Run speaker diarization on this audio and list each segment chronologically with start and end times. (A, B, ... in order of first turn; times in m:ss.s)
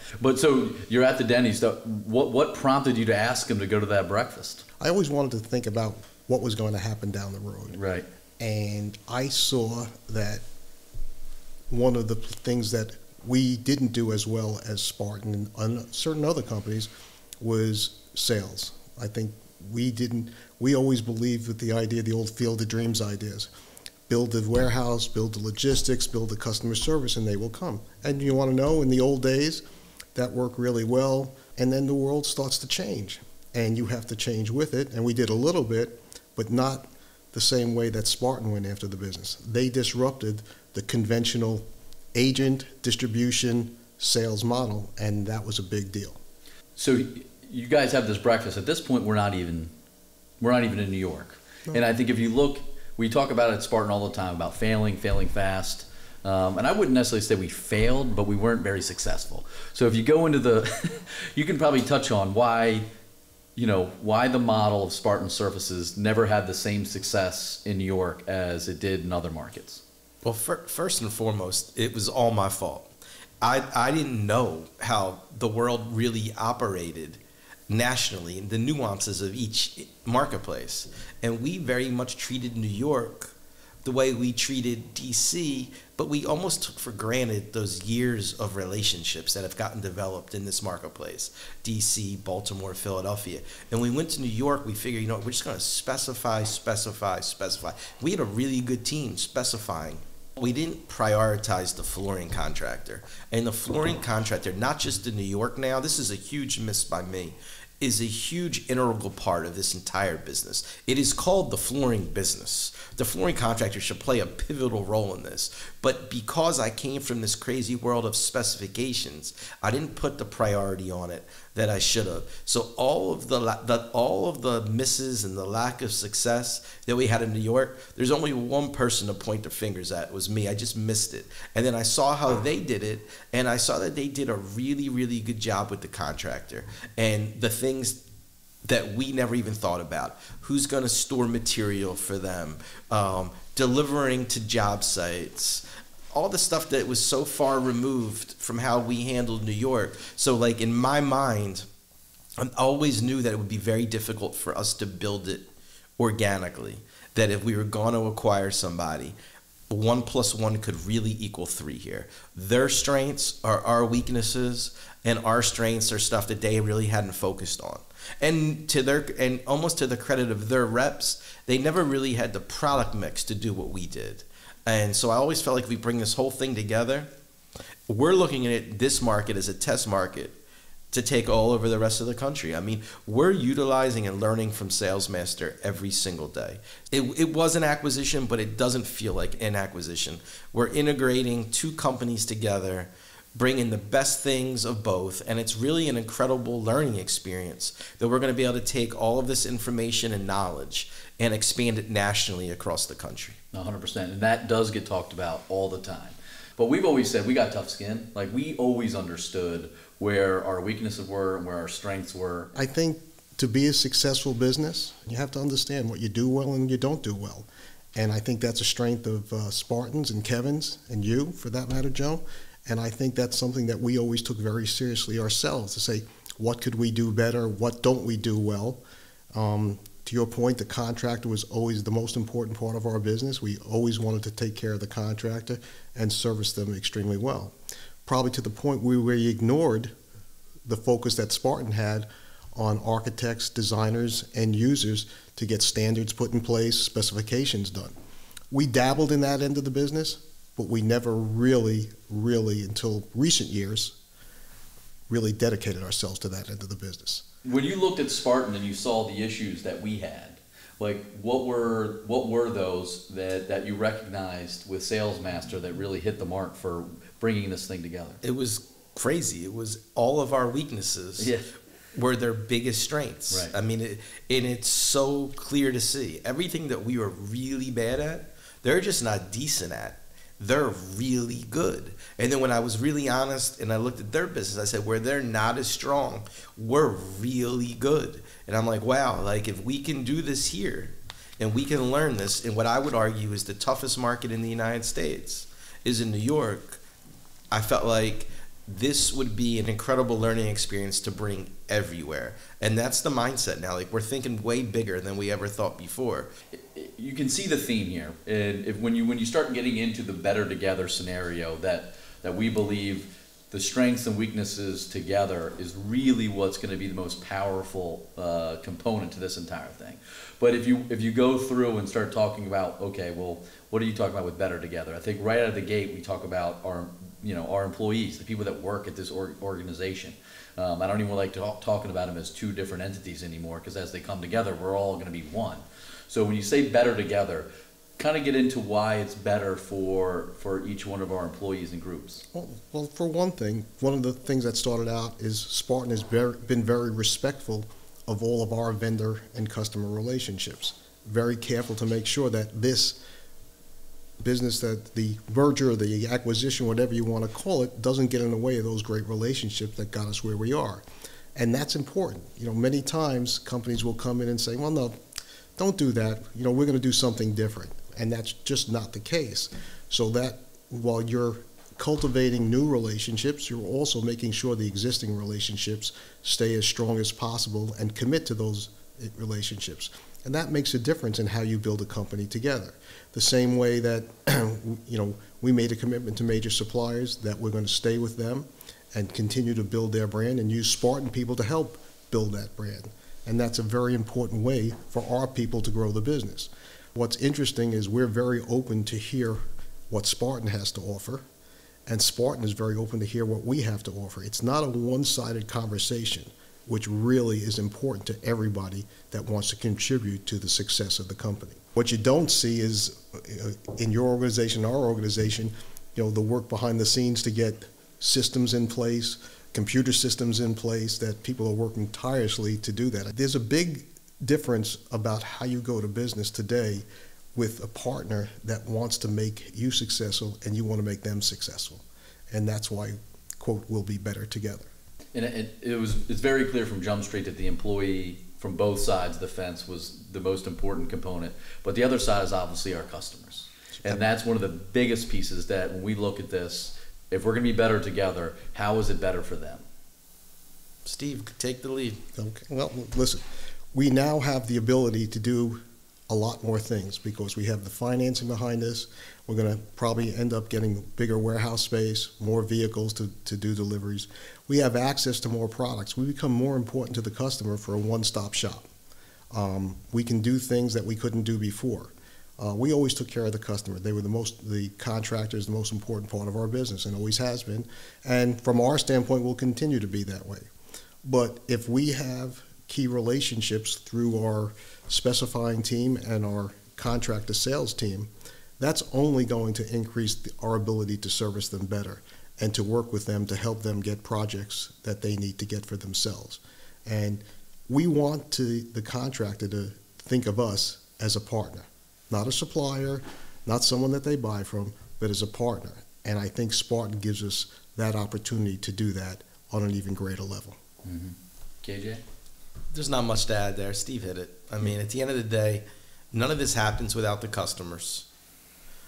0:00.2-0:04.6 A
0:04.8-0:07.8 B
0:07.7-0:08.0 A
0:08.4-0:10.4 B
0:11.7-0:23.5 B
0:24.1-0:29.6 B
0:30.1-0:46.2 B
0:46.8-0:49.7 A
0:50.4-1:02.8 A
1:03.6-1:09.8 A
1:10.2-1:12.9 C
1:13.4-2:18.0 C
2:18.6-2:31.6 C
2:32.4-2:35.4 C
2:36.0-2:39.2 C
2:39.7-2:57.1 C
2:57.9-3:00.4 C
3:00.9-3:23.4 C
3:23.5-3:32.5 A
3:32.5-3:48.8 B
3:49.3-3:59.9 B
4:00.6-4:07.9 B
4:08.5-4:14.0 B
4:15.1-4:17.2 B
4:17.4-4:28.2 A
4:28.2-4:31.3 C
4:31.2-4:31.4 A
4:31.9-4:56.8 C
4:57.5-5:06.3 C
5:06.5-5:42.2 A
5:42.3-5:53.0 B
5:54.2-6:00.8 B
6:01.3-6:05.0 B
6:05.6-6:41.2 B
6:41.9-7:14.7 B
7:15.1-7:29.6 A
7:30.8-7:32.0 C
7:32.2-7:33.2 B
7:33.7-7:48.7 B
7:49.3-8:00.5 B
8:01.0-8:30.6 B
8:30.8-8:32.0 A
8:32.7-8:38.0 C